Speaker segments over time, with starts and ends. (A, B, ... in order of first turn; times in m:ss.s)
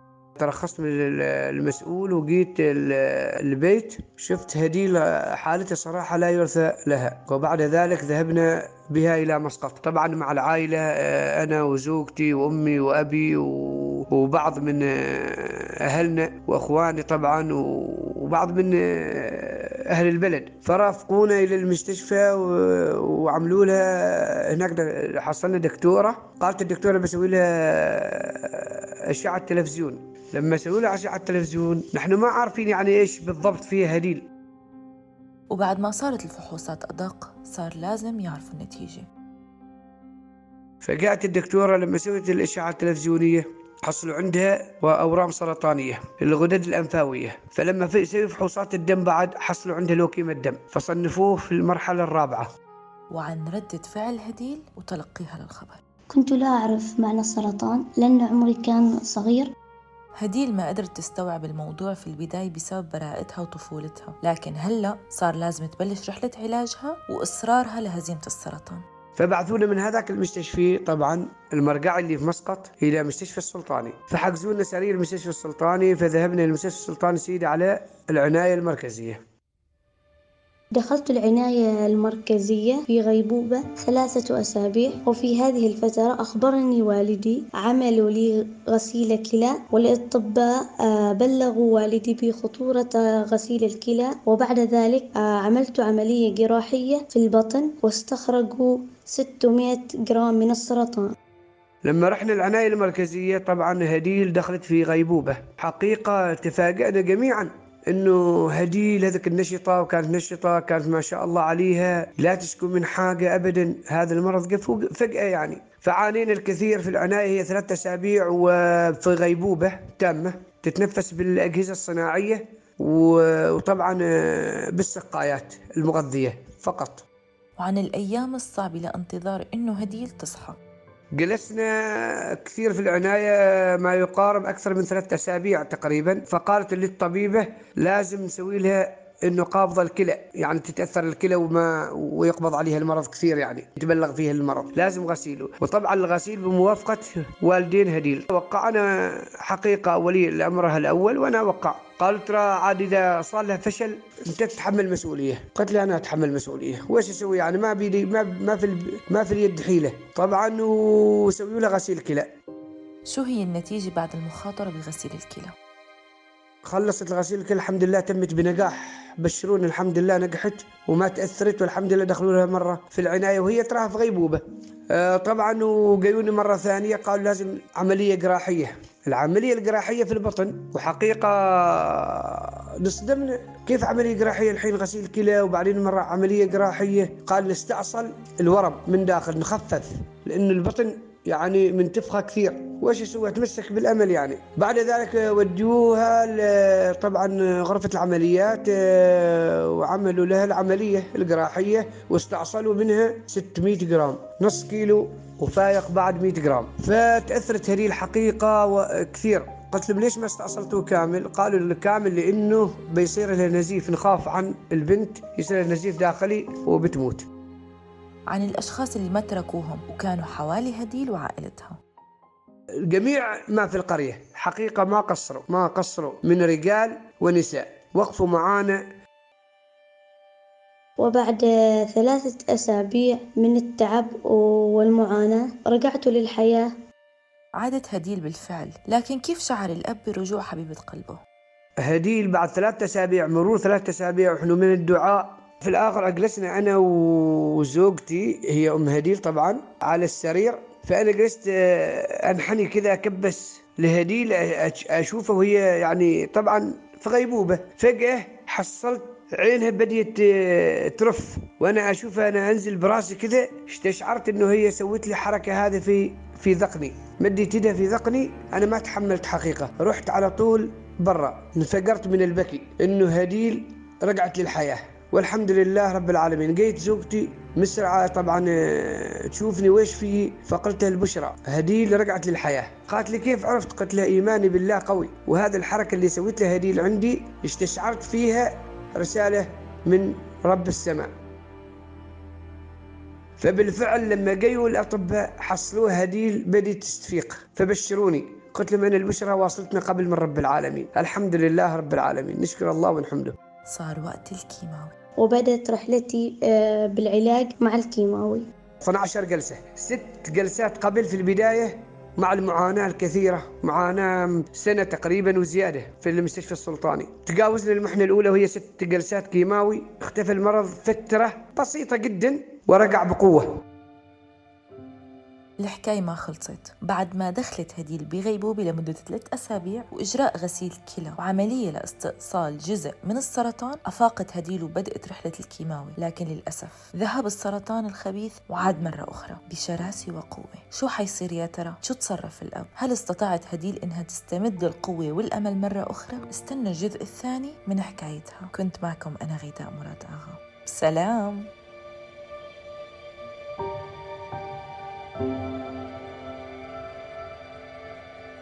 0:00.4-0:34.2 A
0:35.5-0:39.1 B
0:40.8-0:52.5 A
0:53.1-0:55.8 B
0:56.1-0:59.5 C
1:00.2-1:08.8 B
1:09.2-1:19.2 A
1:20.7-1:41.1 C
1:41.8-2:07.0 A
2:07.6-2:10.6 B
2:11.2-2:42.3 A
2:43.1-2:45.5 B
2:46.7-3:37.3 A
3:38.3-3:41.8 B
3:42.9-3:48.8 A
3:51.0-3:56.7 C
3:57.6-4:01.2 B
4:01.8-4:51.1 A
4:53.4-5:03.3 A
5:03.7-5:04.9 B
5:05.2-5:08.4 C
5:08.8-5:23.5 A
5:25.6-5:51.5 B